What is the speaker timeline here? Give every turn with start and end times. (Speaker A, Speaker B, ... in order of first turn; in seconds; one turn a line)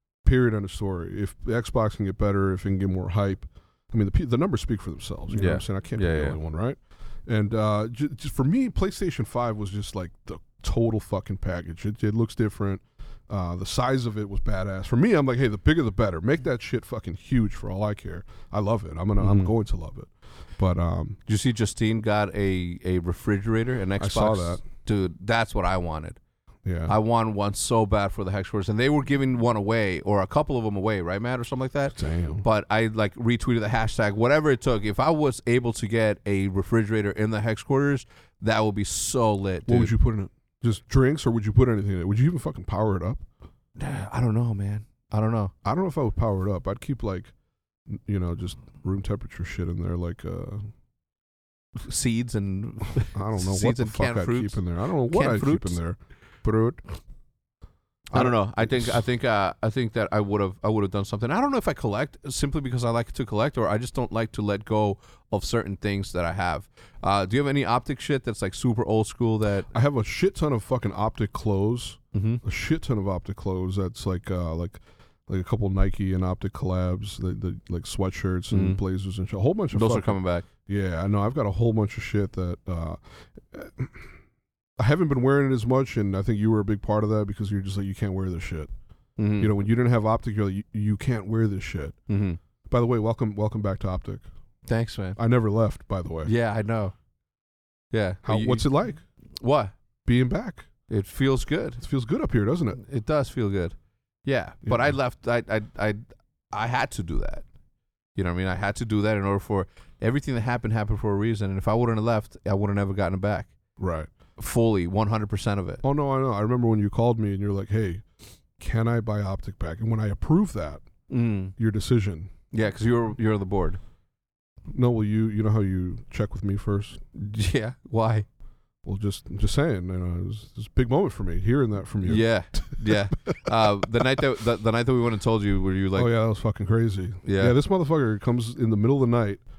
Speaker A: 0.2-21.2
Speaker B: 5.3-6.4
Speaker B: 19.2-19.5
Speaker B: 21.3-26.2
Speaker A: 24.0-24.6
Speaker A: 26.6-26.9
Speaker B: 26.9-39.9
Speaker A: 31.9-32.5
Speaker A: 39.7-43.2
Speaker B: 43.8-45.5
Speaker A: 45.6-47.3
Speaker A: 47.9-50.7
Speaker B: 51.8-55.8
Speaker A: 53.0-56.8
Speaker A: 58.1-59.0
Speaker B: 58.1-69.7
Speaker A: 69.7-84.1
Speaker B: 72.1-72.4
Speaker B: 78.5-78.8
Speaker B: 79.7-80.5
Speaker A: 84.8-88.7
Speaker B: 89.2-89.5
Speaker A: 89.4-92.0
Speaker B: 92.1-92.4
Speaker A: 92.7-94.2
Speaker B: 94.7-95.2
Speaker A: 95.2-96.3
Speaker B: 96.2-96.9
Speaker B: 97.9-98.7
Speaker A: 98.2-99.0
Speaker B: 99.4-99.7
Speaker A: 100.0-100.7
Speaker B: 100.9-101.8
Speaker A: 101.8-102.8
Speaker B: 102.8-107.5
Speaker A: 104.7-105.0
Speaker B: 108.2-113.5
Speaker A: 113.8-114.1
Speaker B: 114.4-115.8
Speaker A: 115.8-118.0
Speaker A: 118.6-120.8
Speaker B: 121.1-121.5
Speaker A: 121.6-122.3
Speaker B: 122.5-123.8
Speaker A: 124.7-127.0
Speaker B: 127.1-128.3
Speaker A: 128.8-134.1
Speaker B: 132.0-136.1
Speaker A: 135.9-139.4
Speaker B: 137.2-137.6